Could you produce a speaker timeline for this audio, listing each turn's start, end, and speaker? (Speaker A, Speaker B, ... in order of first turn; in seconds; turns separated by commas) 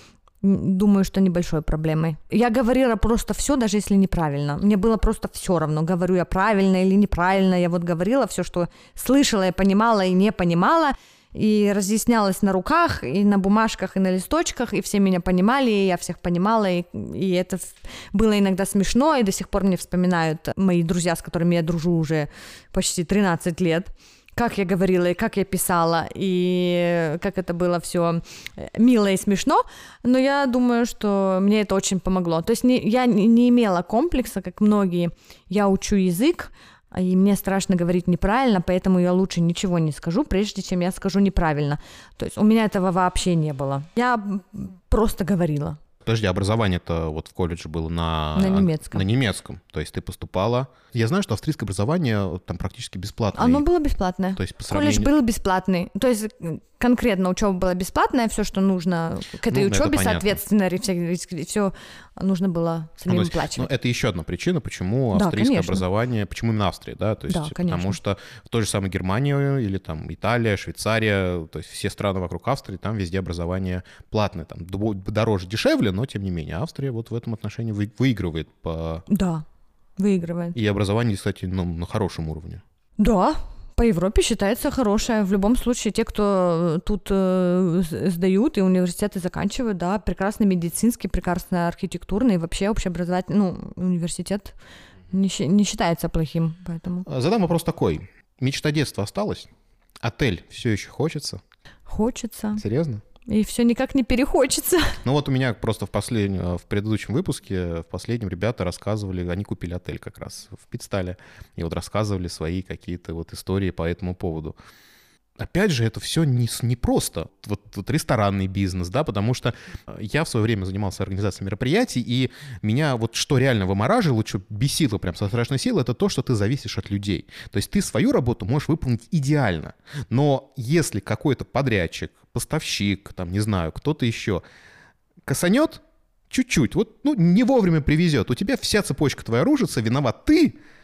Speaker A: 0.4-45.8, Speaker B: 46.0-53.7, Speaker A: 48.4-49.0, Speaker A: 53.4-63.7, Speaker B: 54.4-55.1, Speaker B: 59.5-60.4, Speaker B: 63.1-79.1, Speaker A: 65.1-65.8, Speaker A: 67.3-68.0, Speaker A: 79.1-79.5, Speaker A: 80.0-80.6, Speaker B: 80.5-82.6, Speaker A: 83.0-94.5, Speaker A: 95.1-97.1, Speaker B: 97.1-99.5, Speaker B: 100.0-101.4, Speaker A: 101.9-102.6, Speaker B: 102.6-103.0, Speaker A: 103.3-105.0, Speaker B: 105.0-114.5, Speaker B: 115.4-134.4, Speaker B: 135.3-140.6